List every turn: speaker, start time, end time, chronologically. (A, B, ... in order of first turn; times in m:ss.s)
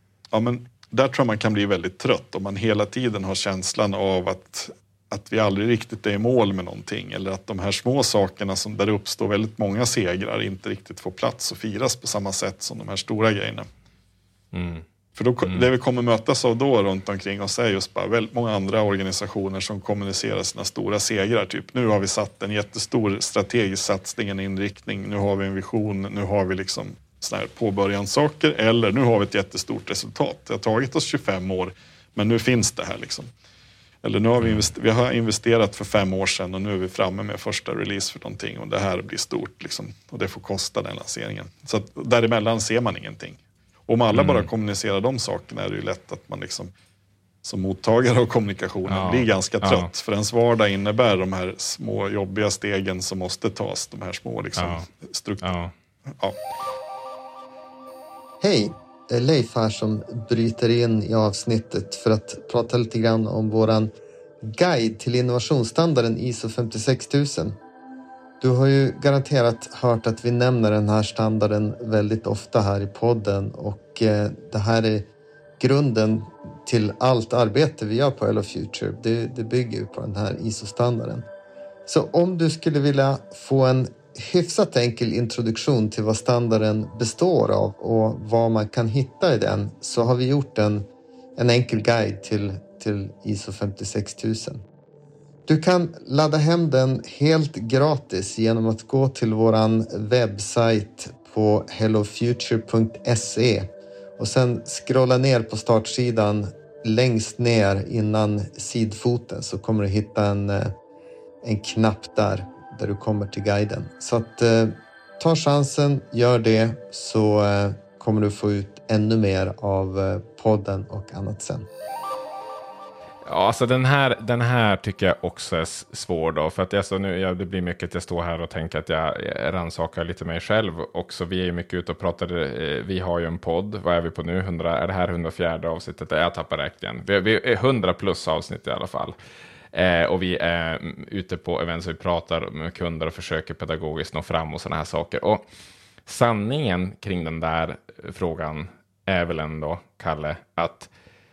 0:00.3-0:13.7 A
0:14.5-0:14.8 B
0:15.2-0:33.3 A
0:34.0-0:46.7 A
0:44.1-0:44.5 B
0:47.4-0:55.5 A
0:48.9-0:49.9 B
0:54.6-0:54.9 B
0:55.4-0:55.7 B
0:58.4-1:03.9 C
1:04.4-1:07.6 C
1:08.4-1:15.1 C
1:15.6-1:21.2 C
1:21.9-1:34.6 C
1:35.5-1:43.7 C
1:44.2-1:50.7 C
1:51.4-2:01.7 C
2:03.3-2:19.2 B
2:19.7-2:25.4 B
2:26.1-2:30.9 B